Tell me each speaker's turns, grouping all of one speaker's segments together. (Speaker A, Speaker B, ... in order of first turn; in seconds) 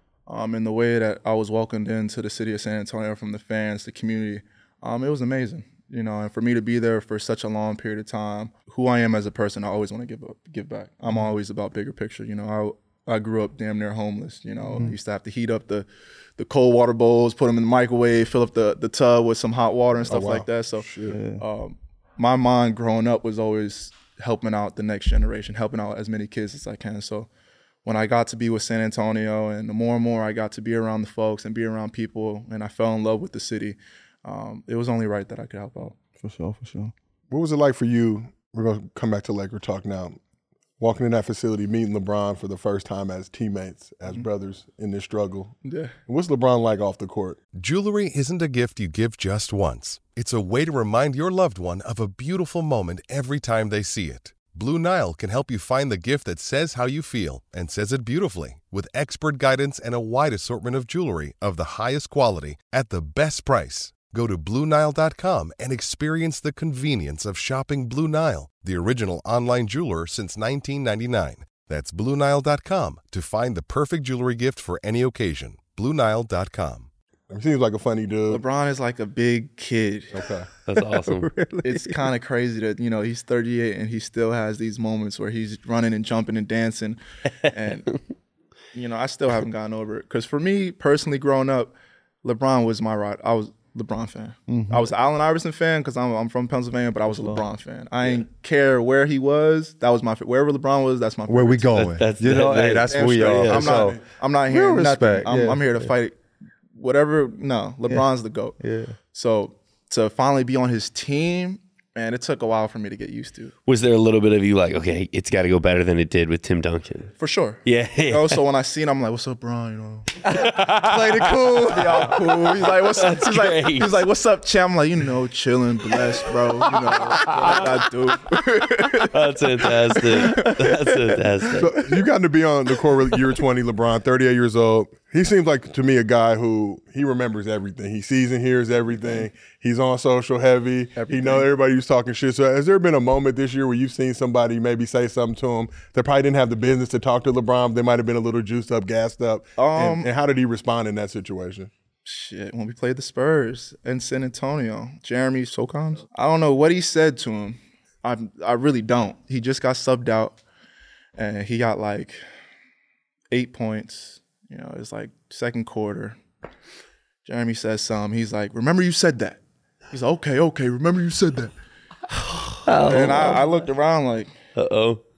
Speaker A: 0.3-27.3, 27.8-35.9, 45.6-45.9, 78.3-80.3, 81.6-88.0, 88.7-106.2, 106.7-108.6, 109.1-113.5, 117.2-120.1, 121.6-130.8, 140.9-141.5, 149.6-150.1, 152.0-160.4, 161.2-162.2, 163.3-166.2, 167.2-169.4, 169.9-171.5, 172.8-174.3
Speaker B: 20.1-21.2, 37.3-40.2, 40.8-45.5, 46.1-47.4, 77.3-78.4, 80.1-80.5, 103.7-104.0, 131.6-151.7
Speaker C: 21.1-21.4, 36.2-36.9, 80.8-82.0, 94.5-94.8, 97.1-97.4, 101.3-105.9, 108.6-109.0, 120.3-122.3
Speaker D: 47.5-76.9
Speaker E: 80.7-81.3, 101.8-104.0, 113.7-117.1, 117.6-118.4, 120.2-124.0, 126.2-127.8, 129.0-131.7, 172.6-173.5, 174.6-175.0